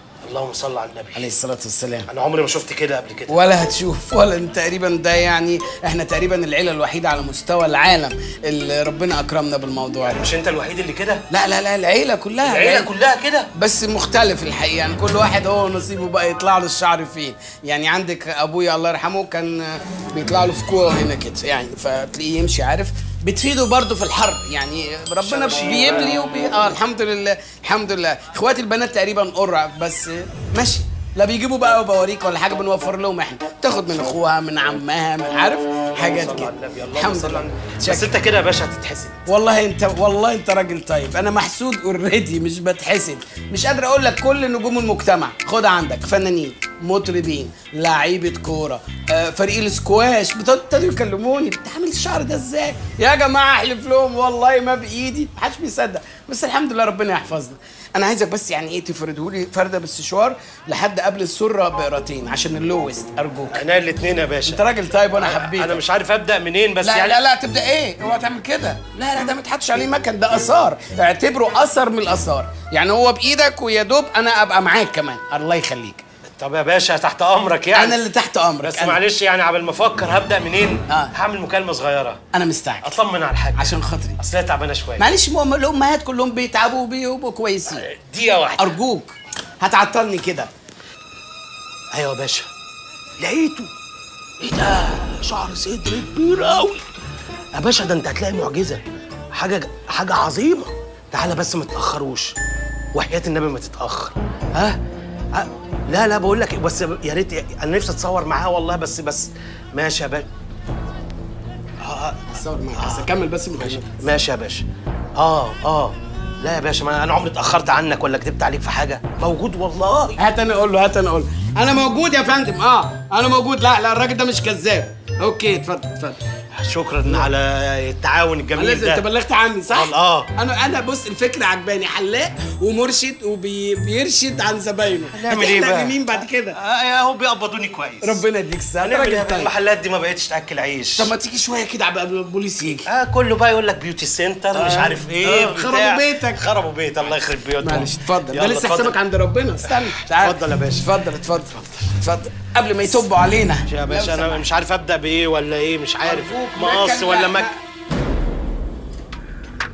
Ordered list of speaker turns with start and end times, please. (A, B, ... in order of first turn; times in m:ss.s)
0:00.2-0:01.3 A
0:01.2-0:02.1 B
0:02.1-0:03.4 A
0:03.3-0:10.3 B
0:10.1-0:11.2 A
0:11.3-0:12.9 B
0:12.4-0:13.5 A
0:13.6-0:38.1 B
0:25.3-0:26.1 A
0:36.0-0:39.2 A
0:39.3-1:03.6 B
1:03.5-1:04.6 A
1:04.5-1:05.8 B
1:05.2-1:07.2 A
1:06.8-1:16.0 B
1:16.4-1:18.0 A
1:17.7-1:19.0 B
1:18.6-1:22.2 A
1:22.3-1:22.8 B
1:22.8-1:25.0 A
1:23.6-1:24.2 B
1:25.0-1:27.8 B
1:27.9-1:28.7 A
1:28.6-1:30.5 B
1:31.9-1:32.5 A
1:33.2-1:33.7 A
1:34.4-1:36.8 A
1:37.6-1:38.8 A
1:39.3-1:42.3 A
1:43.0-1:44.8 A
1:45.4-1:50.3 A
1:51.8-1:52.2 A
1:52.3-1:53.8 B
1:52.8-1:53.1 A
1:53.6-1:54.6 A
1:55.2-2:00.2 A
2:00.2-2:06.2 B
2:06.6-2:09.0 A
2:08.6-2:16.6 B
2:09.7-2:10.3 A
2:15.1-2:16.0 A
2:16.6-2:18.2 A
2:18.0-2:19.5 B
2:18.8-2:21.1 A
2:21.0-2:22.9 B
2:22.9-2:28.9 A
2:24.5-2:26.4 B
2:27.6-2:34.5 B
2:30.2-2:30.8 A
2:33.7-2:37.5 A
2:36.0-2:37.6 B